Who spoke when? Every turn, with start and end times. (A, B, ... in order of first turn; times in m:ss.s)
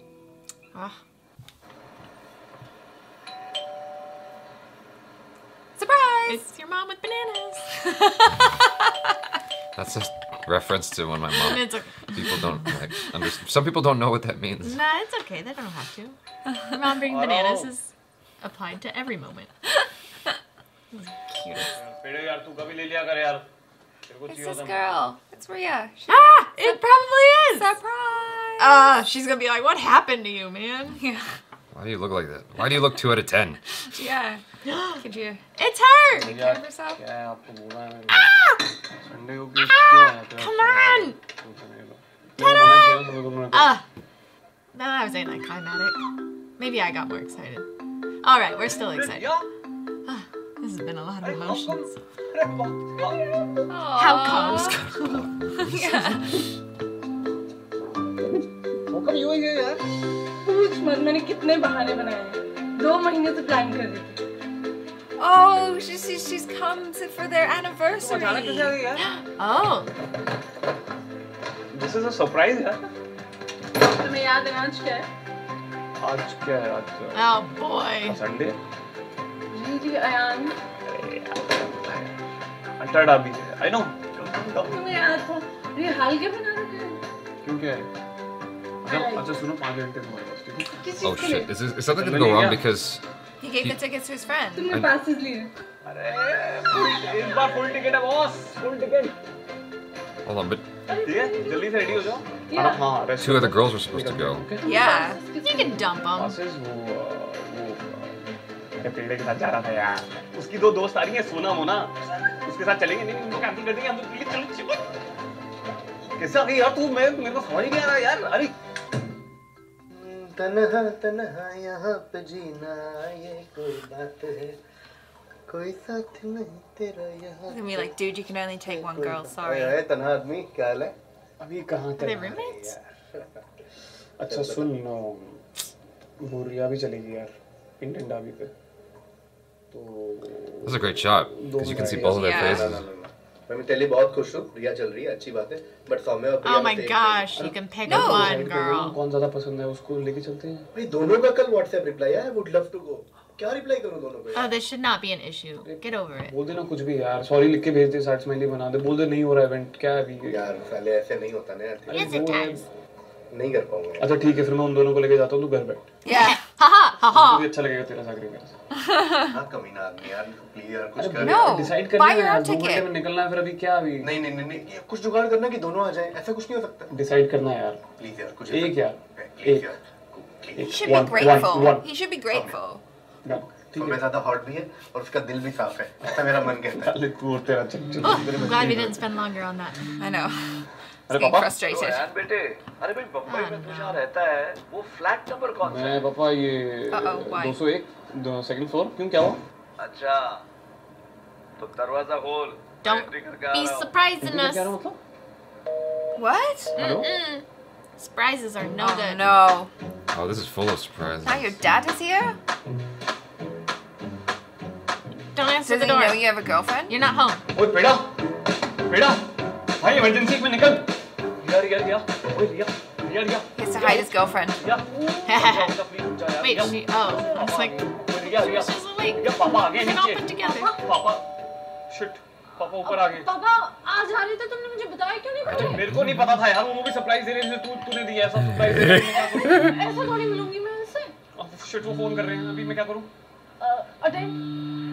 0:00.7-0:01.0 A
0:05.8-0:06.4 B
0:06.3-0:07.7 A
0:07.8-0:08.6 B
0:09.8-0:14.8 C
0:11.4-0:12.7 A
0:14.6-0:16.2 A
0:16.7-0:19.7 A
0:17.1-0:17.7 D
0:20.9-0:21.8 A
0:21.7-0:23.5 D
0:24.1-0:25.0 D
0:24.3-0:26.8 B
0:26.1-0:27.7 A
0:27.5-0:28.8 B
0:28.6-0:31.0 A
0:31.0-0:31.4 B
0:31.7-0:33.6 C
0:33.9-0:34.4 B
0:34.6-0:35.0 A
0:35.0-0:35.4 B
0:35.6-0:36.5 A
0:36.2-0:38.3 D
0:36.2-0:37.0 B
0:38.1-0:38.7 A
0:39.0-0:43.8 D
0:39.6-0:41.2 A
0:42.4-0:43.8 A
0:44.7-0:46.0 A
0:46.6-0:47.7 A
0:48.2-0:49.3 A
0:48.9-0:49.4 D
0:50.1-0:52.0 A
0:51.2-0:53.7 D
0:53.7-0:54.8 B
0:54.0-0:56.4 A
0:54.9-0:56.1 C
0:55.6-0:56.4 B
0:58.9-0:59.8 D
1:00.4-1:04.2 E
1:05.2-1:08.8 B
1:08.0-1:09.0 D
1:09.0-1:09.9 A
1:11.7-1:12.8 D
1:13.8-1:15.1 E
1:16.0-1:17.4 D
1:17.1-1:18.2 A
1:18.0-1:18.6 D
1:19.5-1:20.6 E
1:20.9-1:22.1 D
1:22.8-1:24.8 D
1:24.2-1:24.7 F
1:24.6-1:27.0 E
1:27.4-1:27.9 D
1:28.8-1:30.8 D
1:28.8-1:29.3 E
1:30.7-1:31.6 E
1:31.0-1:33.0 C
1:31.8-1:32.6 D
1:33.4-1:34.8 B
1:34.6-1:35.5 E
1:34.7-1:35.0 C
1:35.9-1:37.9 F
1:36.7-1:39.1 D
1:40.3-1:40.6 C
1:40.9-1:42.9 E
1:41.0-1:44.6 D
1:43.2-1:44.5 C
1:44.6-1:45.9 E
1:44.6-1:45.2 B
1:45.4-1:46.4 A
1:46.2-1:48.2 D
1:48.8-1:54.9 D
1:56.2-1:58.5 D
1:59.9-2:04.6 G
2:05.5-2:07.9 G
2:07.5-2:09.8 B
2:08.6-2:10.9 G
2:11.4-2:12.4 D
2:12.0-2:12.7 A
2:12.3-2:13.3 G
2:14.2-2:15.6 D
2:14.3-2:14.7 G
2:16.2-2:18.5 D
2:19.7-2:22.2 D
2:20.6-2:22.9 C
2:21.7-2:27.5 G
2:22.1-2:22.7 B
2:26.4-2:29.0 A
2:27.4-2:30.7 D
2:27.8-2:28.4 B
2:30.7-2:34.6 G
2:34.4-2:36.3 A
2:35.6-2:40.4 D
2:40.2-2:42.4 G
2:41.9-2:42.6 D
2:41.9-2:42.6 A
2:43.3-2:44.5 G
2:44.0-2:45.9 D
2:46.0-2:46.4 B
2:46.1-2:47.5 A
2:47.1-2:48.6 D
2:48.7-2:49.4 B
2:49.3-2:51.7 G
2:51.0-2:54.1 D
2:51.2-2:52.9 B
2:54.0-2:56.9 G
2:56.9-2:57.8 D
2:58.0-3:01.0 G
2:58.5-2:59.7 D
3:00.6-3:01.9 D
3:00.7-3:02.8 B
3:02.3-3:02.6 G
3:03.2-3:04.0 D
3:03.7-3:07.0 G
3:06.6-3:09.0 D
3:08.0-3:09.9 A
3:10.0-3:12.1 B
3:11.1-3:11.5 D
3:11.6-3:16.0 F
3:13.3-3:14.0 A
3:15.6-3:19.4 D
3:16.9-3:17.6 B
3:19.8-3:20.4 F
3:21.6-3:23.9 F
3:22.8-3:24.7 A
3:24.2-3:25.0 D
3:26.2-3:26.8 B
3:26.8-3:27.1 D
3:26.8-3:27.4 A
3:28.0-3:29.3 A
3:28.8-3:29.7 B
3:30.1-3:31.6 C
3:31.2-3:32.4 B
3:35.4-3:36.3 A
3:35.6-3:37.0 B
3:36.9-3:37.4 A
3:37.5-3:38.1 D
3:38.9-3:39.3 D
3:39.8-3:40.9 D
3:41.4-3:51.3 D
3:43.6-3:44.6 B
3:45.3-3:45.8 A
3:46.4-3:50.8 A
3:50.5-3:50.8 E
3:51.9-3:53.3 D
3:52.8-3:55.9 E
3:55.4-3:56.3 C
3:55.5-3:59.7 D
3:58.6-3:59.1 C
3:59.4-4:01.2 E
4:01.4-4:03.1 D
4:03.6-4:04.4 E